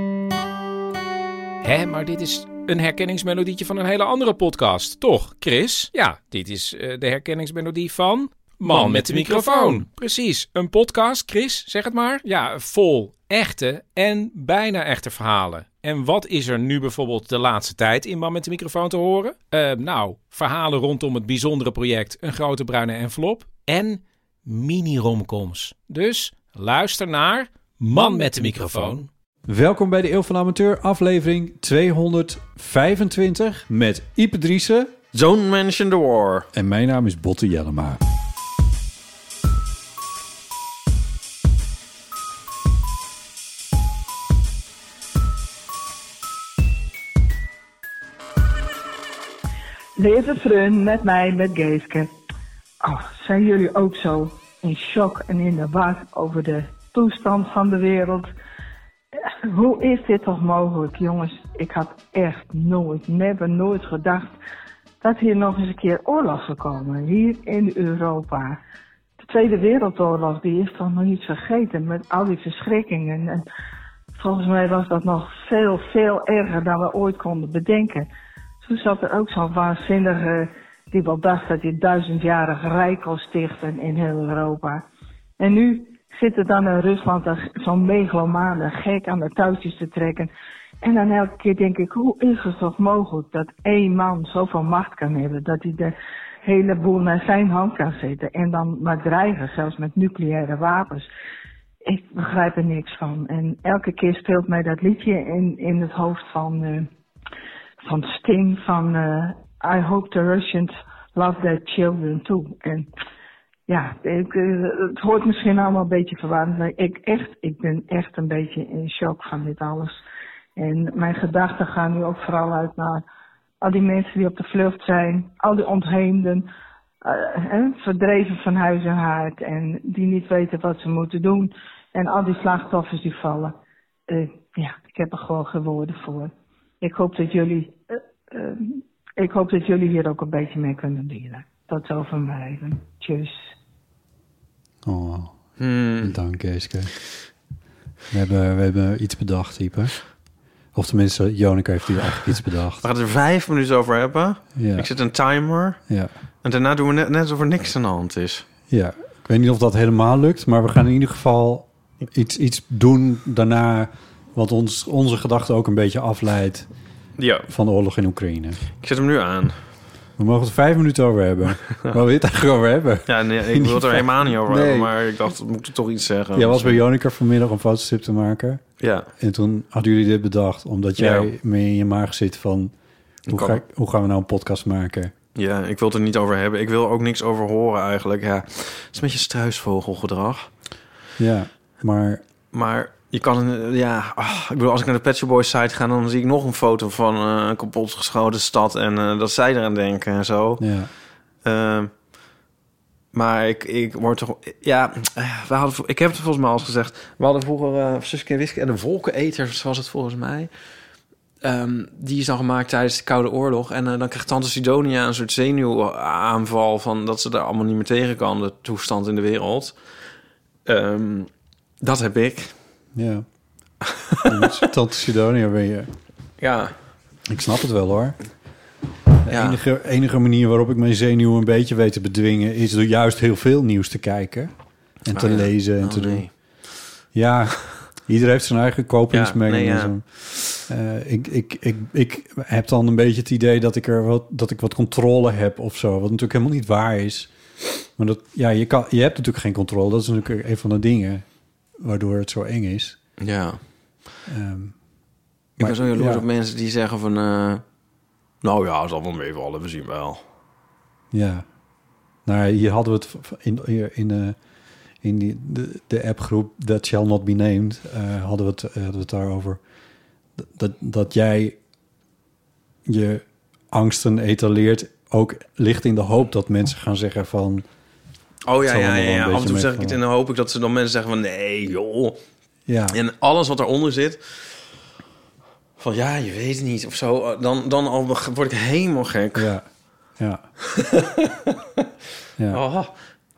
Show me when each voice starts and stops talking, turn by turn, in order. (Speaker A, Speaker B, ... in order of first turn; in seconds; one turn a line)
Speaker A: 1.6-29.1
Speaker B: 29.4-34.9
Speaker C: 35.1-36.5
Speaker B: 36.5-38.0
Speaker D: 50.0-52.1
Speaker D: 52.8-58.3
Speaker D: 59.2-64.3
Speaker D: 65.0-68.6
Speaker D: 69.2-73.4
Speaker D: 74.2-78.1
Speaker D: 78.6-84.8
Speaker D: 85.4-90.3
Speaker D: 90.8-101.1
Speaker D: 101.8-106.9
Speaker D: 107.8-112.9
Speaker D: 113.7-119.9
Speaker D: 120.5-123.0
Speaker D: 123.6-126.5
Speaker D: 127.0-133.5
Speaker D: 134.1-143.5
Speaker B: 144.8-145.3
Speaker C: 145.6-146.2
Speaker B: 146.0-146.9
Speaker B: 148.1-149.9
Speaker B: 150.7-152.9
Speaker C: 152.8-155.8
Speaker B: 154.6-154.9
Speaker C: 156.4-158.5
Speaker B: 158.7-166.7
Speaker C: 167.2-167.5
Speaker B: 167.5-168.6
Speaker C: 168.8-169.6
Speaker B: 170.2-174.9
Speaker C: 173.1-176.8
Speaker B: 176.3-178.6
Speaker C: 178.8-179.1
Speaker B: 179.2-182.7
Speaker C: 181.0-181.3
Speaker C: 183.3-183.6
Speaker B: 183.3-185.1
Speaker C: 185.3-190.5
Speaker B: 191.2-192.2
Speaker C: 192.5-200.6
Speaker B: 200.6-200.9
Speaker C: 201.4-201.9
Speaker C: 203.1-210.5
Speaker C: 211.4-219.8
Speaker C: 220.7-221.3
Speaker C: 221.8-222.5
Speaker B: 222.9-223.2
Speaker C: 223.8-224.7
Speaker B: 224.2-225.9
Speaker C: 226.4-226.7
Speaker B: 227.3-228.2
Speaker B: 229.2-234.5
Speaker C: 229.3-229.6
Speaker B: 235.0-236.2
Speaker C: 235.1-236.3
Speaker B: 237.1-240.0
Speaker C: 239.1-239.9
Speaker B: 240.6-247.3
Speaker B: 248.0-251.2
Speaker B: 251.8-253.0
Speaker C: 253.2-253.6
Speaker B: 254.3-254.8
Speaker C: 255.6-257.6
Speaker B: 255.6-256.2
Speaker C: 258.4-260.2
Speaker B: 261.1-261.4
Speaker B: 262.2-264.4
Speaker B: 265.0-269.6
Speaker B: 270.4-271.6
Speaker B: 272.9-277.6
Speaker C: 278.4-282.2
Speaker B: 278.6-280.0
Speaker B: 282.7-283.0
Speaker C: 282.9-284.2
Speaker C: 285.8-289.5
Speaker B: 289.4-289.6
Speaker B: 290.2-290.4
Speaker C: 290.7-291.5
Speaker C: 292.5-292.9